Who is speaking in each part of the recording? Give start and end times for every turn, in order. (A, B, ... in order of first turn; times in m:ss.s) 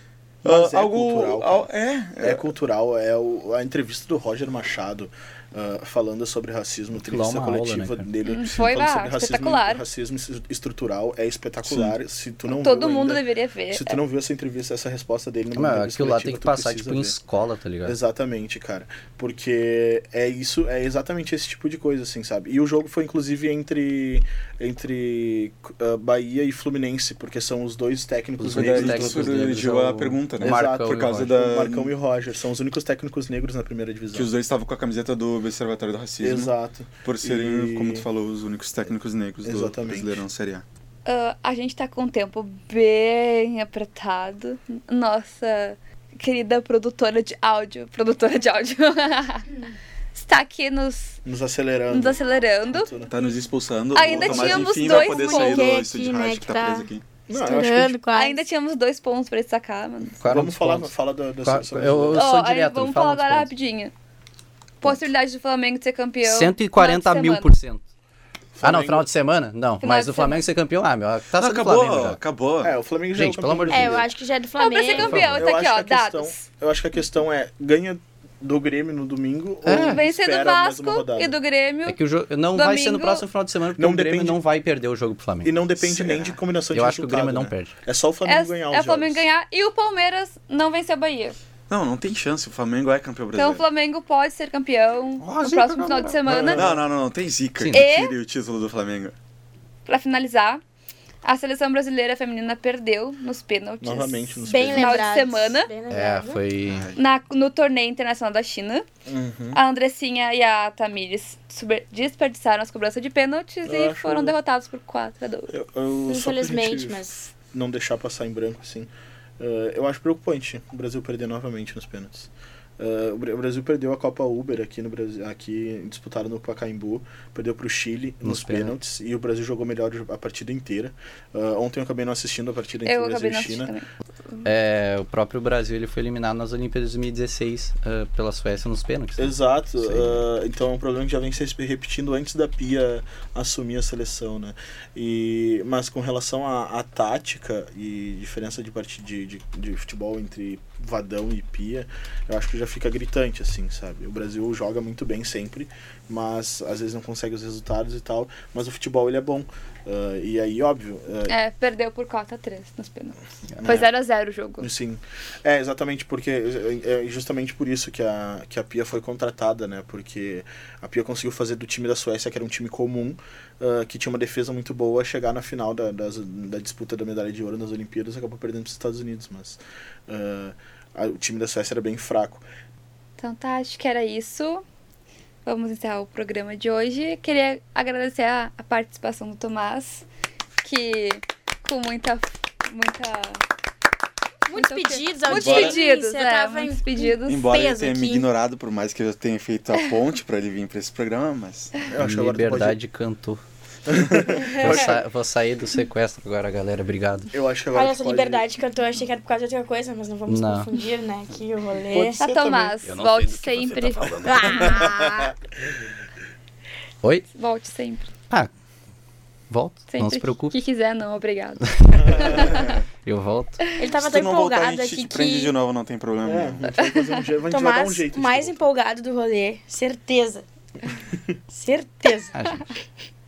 0:00.4-0:01.7 A
0:00.4-0:02.4 B
0:02.2-0:17.1 A
0:06.9-0:08.1 C
0:08.2-0:09.8 D
0:11.6-0:11.9 B
0:12.5-0:14.0 D
0:15.5-0:18.0 C
0:17.8-0:29.5 A
0:28.4-0:31.3 C
0:28.5-0:31.9 B
0:30.4-0:34.3 A
0:34.1-0:36.5 B
0:36.2-0:38.1 A
0:37.0-0:40.6 B
0:39.4-0:40.2 A
0:41.0-0:49.5 D
0:50.1-0:51.2 D
0:51.2-0:52.2 A
0:51.9-0:52.9 D
0:52.7-0:53.1 A
0:53.1-0:57.0 B
0:53.9-0:55.7 D
0:54.0-0:55.1 A
0:55.1-0:58.4 E
0:57.3-0:58.0 A
0:58.1-1:00.2 D
1:00.2-1:00.9 C
1:00.2-1:02.2 A
1:01.4-1:03.5 C
1:02.2-1:03.9 D
1:04.8-1:07.5 D
1:06.2-1:07.8 C
1:08.6-1:09.1 A
1:08.6-1:12.2 C
1:09.8-1:10.4 D
1:11.4-1:12.7 B
1:12.6-1:14.1 A
1:13.2-1:14.1 C
1:13.7-1:15.2 E
1:14.6-1:16.4 D
1:14.9-1:15.4 C
1:15.3-1:21.3 A
1:19.6-1:20.0 C
1:19.7-1:22.0 D
1:21.8-1:25.6 C
1:22.5-1:23.2 D
1:23.8-1:24.4 A
1:25.4-1:29.2 A
1:26.0-1:26.3 B
1:26.7-1:27.7 C
1:28.2-1:31.4 D
1:31.7-1:33.6 B
1:33.3-1:36.6 D
1:35.2-1:36.2 C
1:36.2-1:36.8 A
1:36.6-1:39.1 B
1:37.6-1:37.9 C
1:37.7-1:38.1 D
1:39.9-1:40.6 D
1:41.2-1:45.7 D
1:43.8-1:45.1 A
1:44.4-1:46.4 E
1:45.9-1:46.9 C
1:46.6-1:47.0 B
1:47.0-1:48.8 D
1:49.0-1:49.6 A
1:49.5-1:55.5 D
1:53.6-1:54.3 A
1:55.5-2:13.7 A
1:56.1-1:57.2 E
2:08.2-2:08.8 C
2:12.8-2:13.9 D
2:14.4-2:20.2 C
2:19.2-2:41.3 A
2:41.3-2:44.7 D
2:43.6-2:43.9 A
2:44.6-3:02.4 A
3:03.2-3:04.6 D
3:05.4-3:10.0 D
3:10.6-3:13.4 D
3:14.5-3:18.3 E
3:14.5-3:17.5 D
3:15.4-3:15.8 B
3:17.2-3:21.7 B
3:21.9-3:22.8 A
3:22.0-3:23.4 C
3:23.9-3:24.8 A
3:24.0-3:27.3 C
3:24.4-3:24.9 E
3:27.3-3:28.4 A
3:27.7-3:32.2 E
3:30.3-3:30.7 C
3:31.9-3:32.8 A
3:32.2-3:34.9 D
3:32.8-3:35.2 C
3:34.8-3:35.3 A
3:37.3-3:38.1 D
3:39.5-3:40.5 C
3:39.9-3:42.8 D
3:41.6-3:43.6 C
3:42.1-3:42.7 A
3:43.8-3:45.3 E
3:43.9-3:46.7 B
3:44.6-3:45.5 D
3:46.2-3:48.6 A
3:46.8-3:47.2 D
3:47.5-3:50.4 E
3:51.5-3:52.3 E
3:52.3-3:52.6 C